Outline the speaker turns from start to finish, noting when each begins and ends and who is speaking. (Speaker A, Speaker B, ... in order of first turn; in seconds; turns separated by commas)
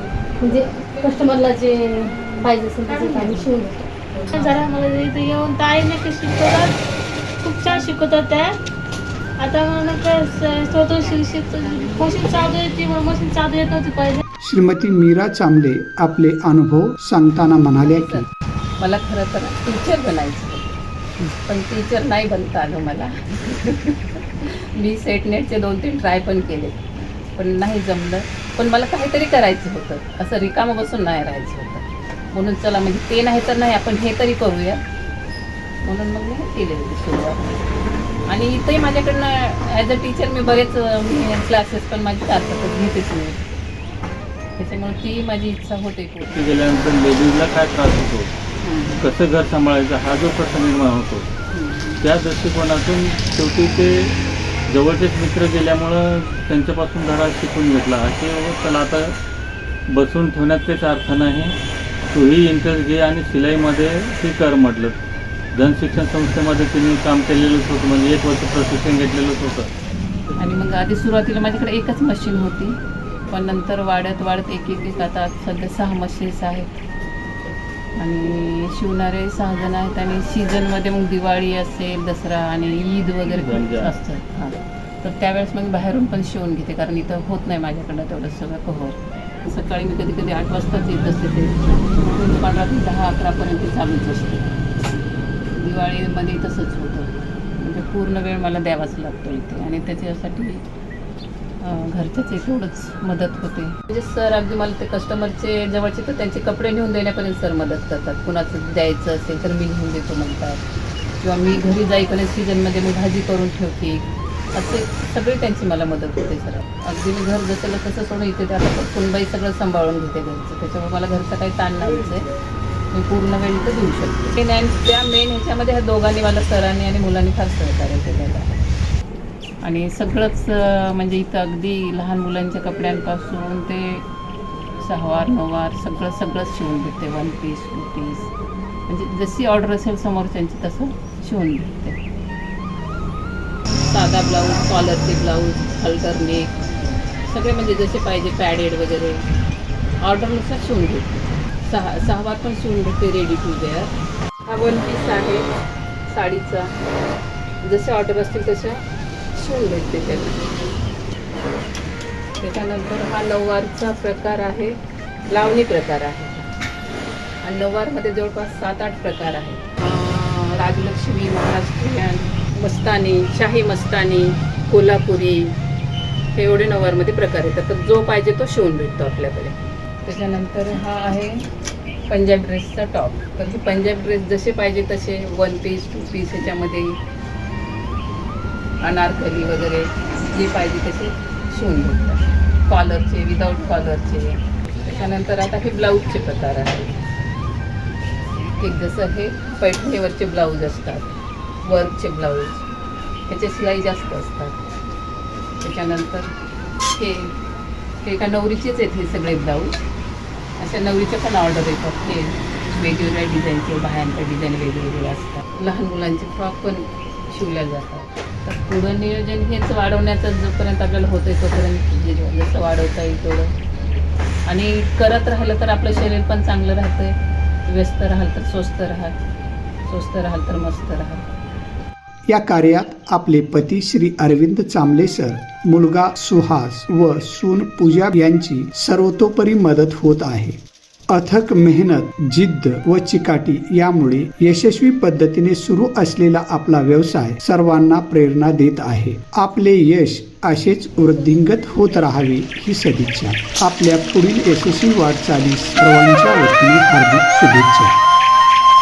Speaker A: 0.4-3.9, Speaker B: 2.9-3.5, Speaker B: 4.3-6.8, Speaker B: 7.4-8.5, Speaker B: 9.4-14.2, Speaker C: 14.4-18.2, Speaker D: 17.8-18.2, Speaker D: 18.8-34.8, Speaker D: 35.8-37.6, Speaker D: 38.3-43.4, Speaker D: 44.6-46.4, Speaker E: 46.3-48.3, Speaker D: 48.6-49.1, Speaker E: 49.0-51.3, Speaker D: 51.5-52.0, Speaker E: 52.0-54.1, Speaker E: 54.7-59.1, Speaker E: 59.9-61.5, Speaker E: 62.1-65.0, Speaker E: 65.5-69.7, Speaker D: 70.4-72.8, Speaker D: 73.3-76.8, Speaker D: 78.0-94.6, Speaker E: 83.3-83.9, Speaker D: 95.5-100.6, Speaker D: 101.6-110.6, Speaker D: 111.2-122.3, Speaker D: 122.9-128.6, Speaker D: 129.6-134.1, Speaker D: 134.8-138.3, Speaker D: 138.9-142.0, Speaker D: 143.8-146.7, Speaker D: 147.2-149.2, Speaker D: 150.0-153.9, Speaker D: 154.4-155.4, Speaker D: 156.1-156.7, Speaker D: 157.6-158.8, Speaker D: 159.3-160.5, Speaker D: 162.4-164.8, Speaker D: 165.3-166.5, Speaker D: 167.4-175.5, Speaker D: 176.3-181.4, Speaker D: 182.1-187.0, Speaker D: 188.8-197.1, Speaker D: 198.6-201.0, Speaker D: 201.6-202.7, Speaker D: 203.2-204.6, Speaker D: 205.6-206.3, Speaker D: 206.9-207.3, Speaker D: 208.0-209.8, Speaker D: 210.6-223.5, Speaker D: 224.5-227.1, Speaker D: 227.7-229.1, Speaker D: 229.8-231.3, Speaker C: 232.3-240.6, Speaker C: 241.1-258.0